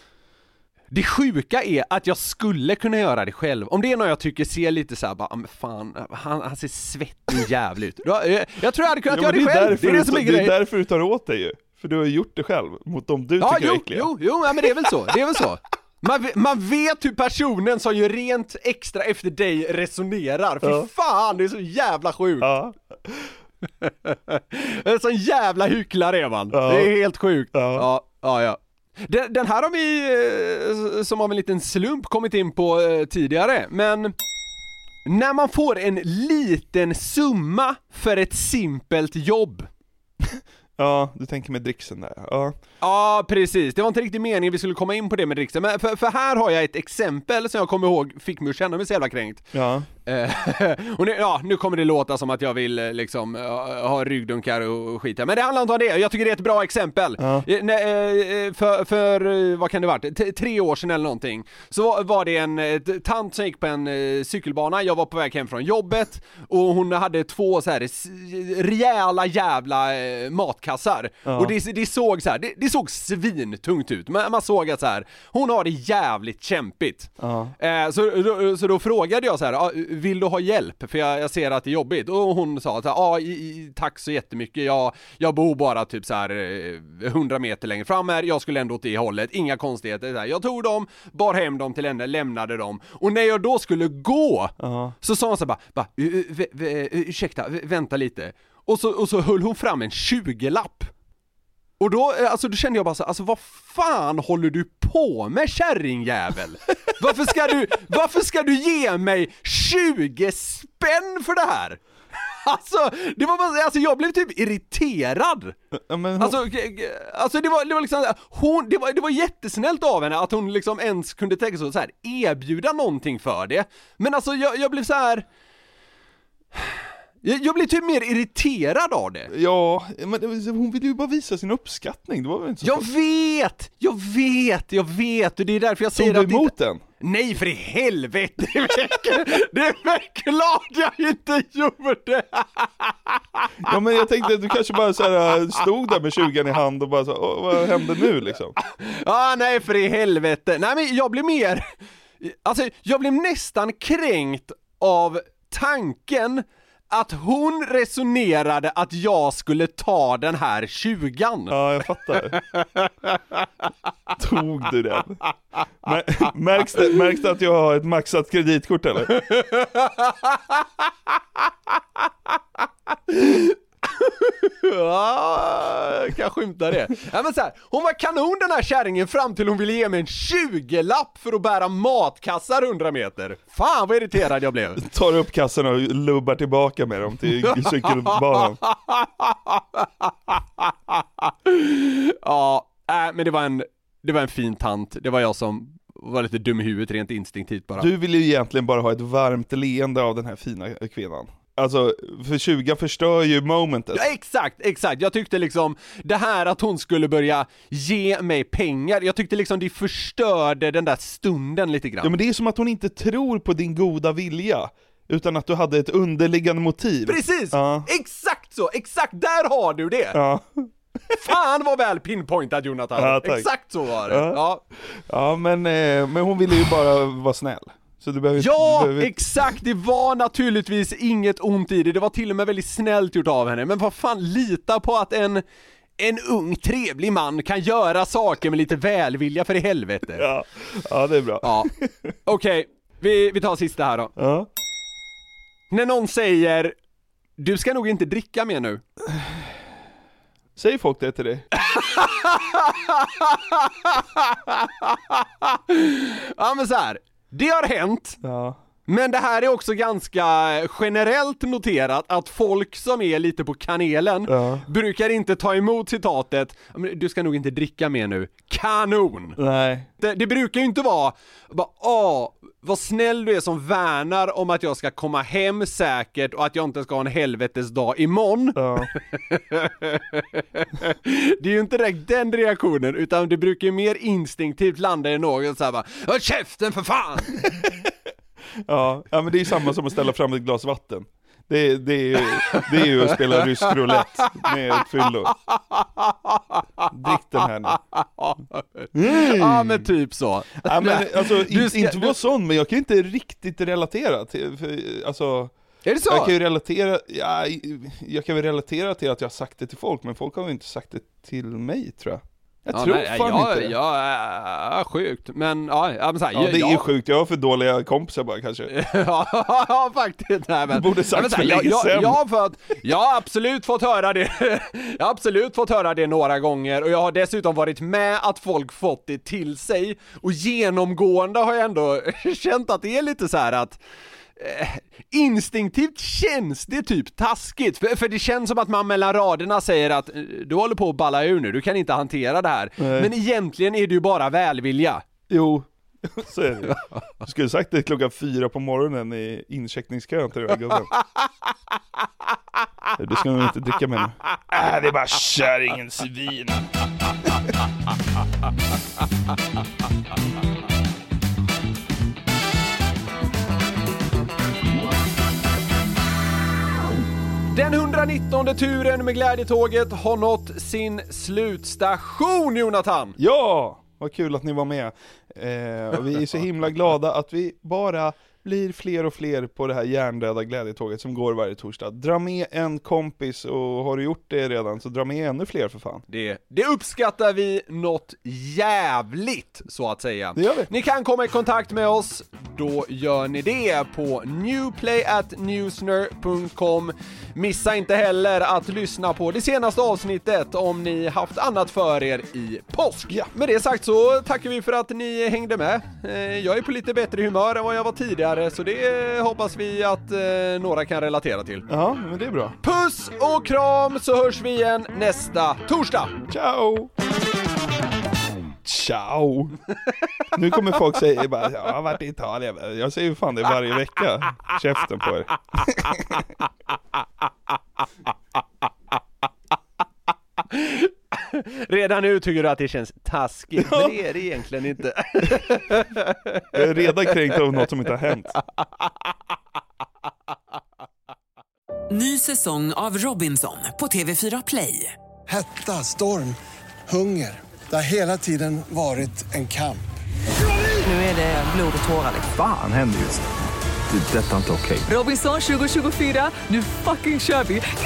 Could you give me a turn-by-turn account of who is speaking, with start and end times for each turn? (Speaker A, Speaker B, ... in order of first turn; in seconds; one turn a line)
Speaker A: 0.9-10.6
Speaker B: 9.1-15.1
Speaker A: 13.4-22.6
Speaker B: 20.6-20.9
Speaker B: 22.4-23.4
Speaker A: 23.8-34.1
Speaker B: 26.5-26.9
Speaker B: 27.5-27.9
Speaker A: 35.1-39.7
Speaker B: 40.2-42.6
Speaker A: 42.8-49.5
Speaker B: 49.5-49.9
Speaker A: 50.1-100.9
Speaker B: 57.2-57.5
Speaker B: 71.3-71.5
Speaker B: 77.2-77.5
Speaker B: 94.6-95.0
Speaker A: 101.8-111.8
Speaker A: 112.4-115.6
Speaker B: 115.7-116.4
Speaker A: 116.2-125.3
Speaker A: 126.6-129.3
Speaker B: 129.3-132.9
Speaker A: 132.6-143.7
Speaker B: 136.0-136.8
Speaker B: 143.6-148.6
Speaker A: 148.6-151.6
Speaker A: 152.2-161.6
Speaker B: 161.5-162.4
Speaker A: 162.4-163.2
Speaker B: 164.2-165.2
Speaker B: 165.8-169.1
Speaker A: 169.1-170.8
Speaker A: 173.1-184.8
Speaker B: 184.8-188.6
Speaker A: 187.4-197.9
Speaker B: 197.8-204.1
Speaker A: 203.9-212.1
Speaker B: 212.0-217.9
Speaker A: 217.1-220.2
Speaker B: 220.1-221.2
Speaker A: 221.2-224.6
Speaker B: 223.0-229.6
Speaker A: 228.4-235.4
Speaker A: 236.0-240.2
Speaker B: 240.2-242.2
Speaker A: 241.4-241.7
Speaker A: 242.3-244.1
Speaker B: 244.2-244.5
Speaker A: 245.7-246.8
Speaker A: 247.4-248.8
Speaker B: 249.1-249.5
Speaker B: 250.6-251.4
Speaker A: 251.6-258.2
Speaker B: 258.2-258.6
Speaker A: 258.9-269.4
Speaker B: 264.3-264.7
Speaker B: 269.4-269.9
Speaker A: 270.0-287.5
Speaker B: 278.6-278.9
Speaker B: 287.5-287.9
Speaker B: 288.7-295.4
Speaker A: 292.5-294.5
Speaker A: 295.5-302.2
Speaker B: 296.9-297.8
Speaker B: 298.9-299.9
Speaker B: 300.6-305.5
Speaker A: 305.9-306.3
Speaker B: 306.1-313.8
Speaker A: 312.7-316.9
Speaker B: 316.3-318.7
Speaker A: 318.7-333.8
Speaker B: 320.7-322.2
Speaker A: 334.4-345.1
Speaker B: 342.8-343.1
Speaker B: 345.3-350.9
Speaker A: 350.7-351.0
Speaker B: 353.0-356.7
Speaker A: 367.5-373.2
Speaker B: 373.2-386.0
Speaker A: 386.1-411.7
Speaker B: 390.4-390.7
Speaker B: 411.7-412.6
Speaker A: 412.6-416.2
Speaker B: 416.3-416.9
Speaker B: 418.6-419.6
Speaker B: 420.3-426.2
Speaker A: 425.6-426.2
Speaker A: 430.5-437.6
Speaker B: 433.6-434.0
Speaker B: 436.5-438.4
Speaker C: 441.9-445.0
Speaker D: 445.3-450.0
Speaker C: 450.8-452.3
Speaker E: 452.3-453.3
Speaker E: 453.9-454.9
Speaker C: 454.9-457.7